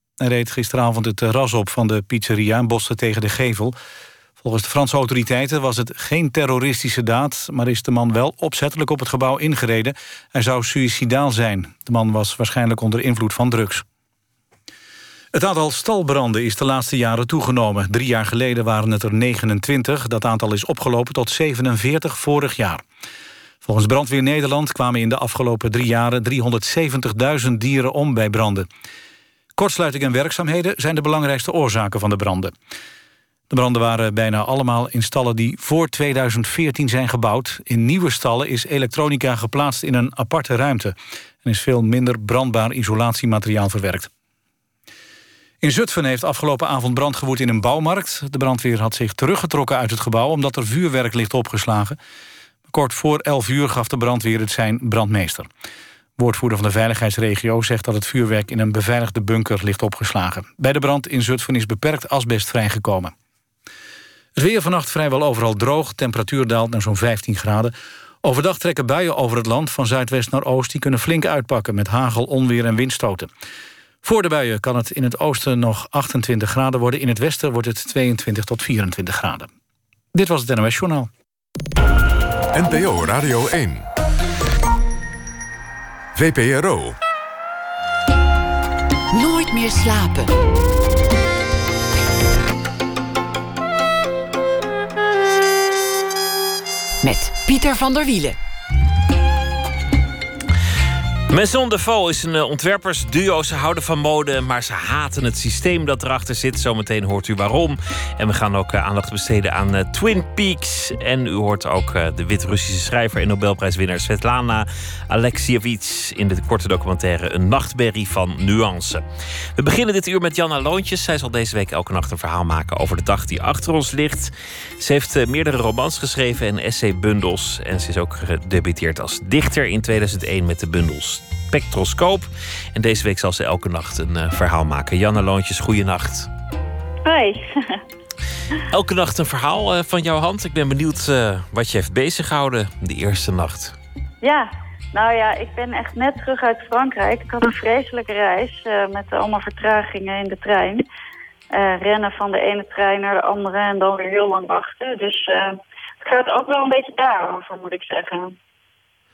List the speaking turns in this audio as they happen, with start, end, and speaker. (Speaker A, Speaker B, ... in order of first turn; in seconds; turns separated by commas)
Speaker A: 0.2-3.8, Speaker A: 4.4-13.8, Speaker A: 15.3-22.8, Speaker A: 23.6-28.7, Speaker A: 29.6-32.5, Speaker A: 33.5-44.1, Speaker A: 45.6-52.0, Speaker A: 52.7-55.5, Speaker A: 56.2-63.1, Speaker A: 64.4-73.3, Speaker A: 74.0-79.5, Speaker A: 80.1-81.1, Speaker B: 82.5-83.9, Speaker B: 86.2-87.0, Speaker C: 89.1-90.4, Speaker C: 97.0-98.4, Speaker D: 101.3-119.1, Speaker D: 119.6-136.3, Speaker E: 137.1-137.8, Speaker D: 138.7-143.8, Speaker E: 144.2-150.8, Speaker E: 151.5-158.3